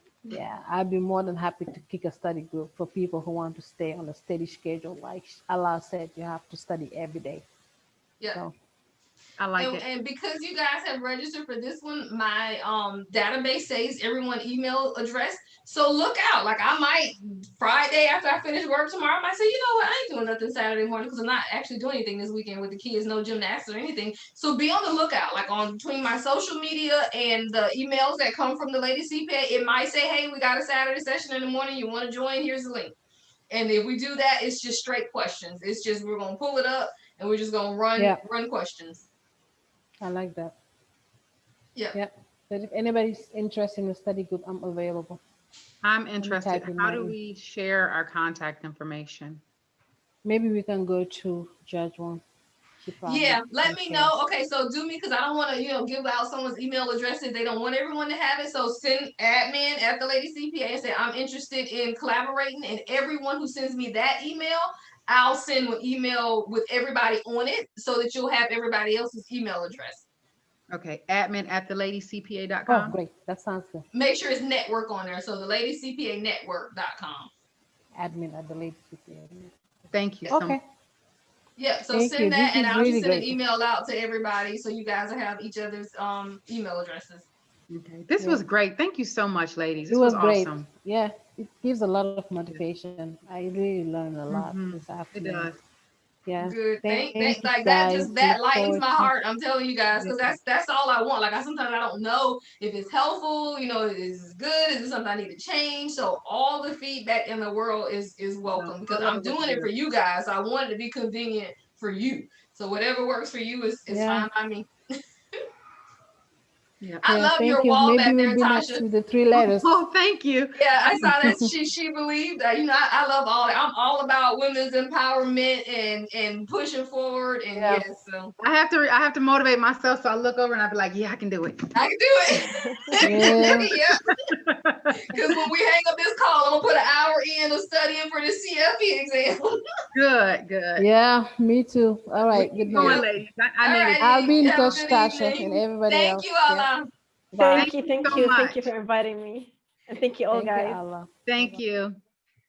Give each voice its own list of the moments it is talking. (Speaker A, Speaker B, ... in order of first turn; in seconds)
Speaker A: 0.3-7.4, 38.0-38.2, 40.0-40.5, 41.9-45.2, 46.2-47.1, 50.2-52.2, 52.8-54.1, 72.7-73.8, 77.9-79.5, 80.3-80.6, 81.9-83.5, 88.2-88.4, 89.9-95.5, 96.2-99.1, 113.9-114.3, 117.0-119.7, 127.5-127.8, 133.0-133.7, 140.8-143.1, 144.0-146.7, 147.3-147.8, 150.3-151.6
Speaker B: 9.4-9.8, 45.8-49.4, 70.7-73.0, 79.9-80.6, 87.7-90.7, 94.3-95.6, 100.0-100.3, 108.5-109.7, 119.3-121.4, 128.4-131.7, 133.0-133.8, 134.3-135.2, 139.9-140.8, 142.3-144.0, 147.5-148.7, 151.2-152.0
Speaker C: 9.6-33.0, 33.5-39.0, 53.0-70.0, 73.9-77.3, 81.6-87.3, 96.4-114.7, 117.0-118.8, 120.5-128.3, 131.7-134.1, 135.1-139.6, 142.7-143.1, 143.6-146.9
Speaker D: 147.4-150.8